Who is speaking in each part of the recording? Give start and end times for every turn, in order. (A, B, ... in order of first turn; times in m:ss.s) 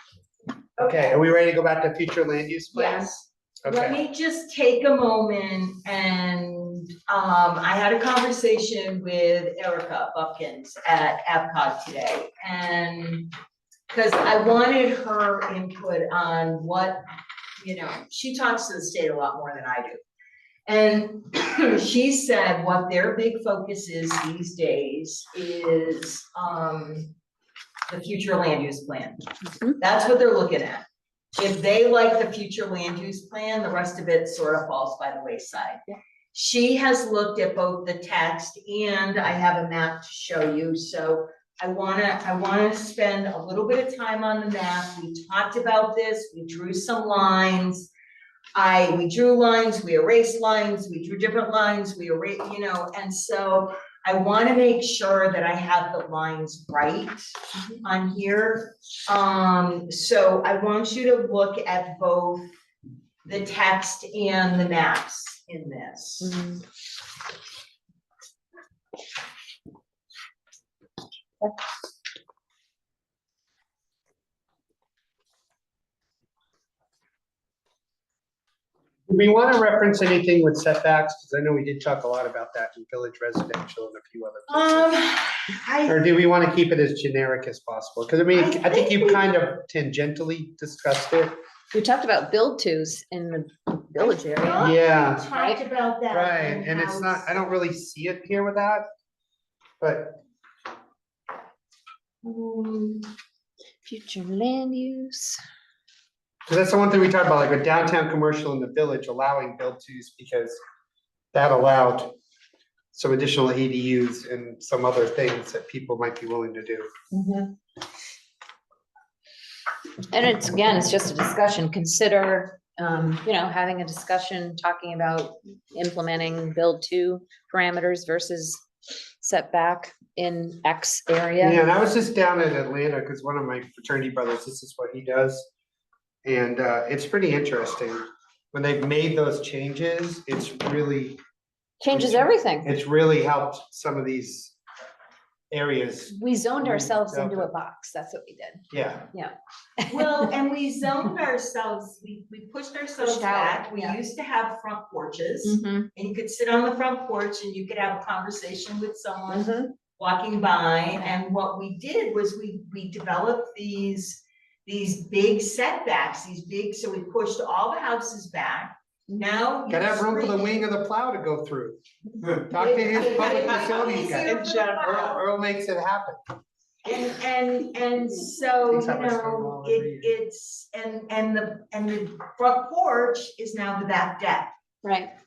0:00.8-0:01.2 A
0:00.8-0:03.1 B
0:02.7-0:13.3 A
0:03.6-0:04.0 B
0:13.9-0:17.0 A
0:17.6-0:20.0 A
0:20.7-0:27.1 A
0:27.9-0:29.2 A
0:29.8-0:30.8 A
0:31.4-0:35.8 A
0:36.3-0:47.9 A
0:48.6-0:57.3 A
0:57.8-1:02.5 A
1:03.2-1:06.4 A
1:06.2-1:06.6 C
1:19.1-1:25.0 B
1:24.5-1:26.0 A
1:25.9-1:31.4 B
1:28.3-1:29.3 A
1:31.7-1:35.6 C
1:34.0-1:37.4 A
1:34.6-1:35.3 B
1:36.1-1:38.8 B
1:39.8-1:40.2 B
1:42.3-1:43.0 A
1:42.6-1:43.0 C
1:43.8-1:45.4 C
1:46.5-1:50.6 B
1:51.3-1:52.2 B
1:52.9-1:56.9 B
1:57.1-1:57.5 C
2:00.1-2:08.6 C
2:09.2-2:11.6 C
2:11.4-2:15.5 B
2:16.2-2:21.2 B
2:21.8-2:22.7 C
2:21.9-2:24.6 B
2:25.5-2:27.5 B
2:26.1-2:30.1 C
2:28.7-2:29.1 B
2:29.9-2:50.7 A
2:33.0-2:34.0 C
2:35.4-2:35.9 C
2:39.3-2:39.7 C
2:49.7-2:56.2 B
2:52.5-2:55.2 A
2:56.9-3:04.5 A
2:58.7-3:00.1 B
3:04.8-3:05.1 C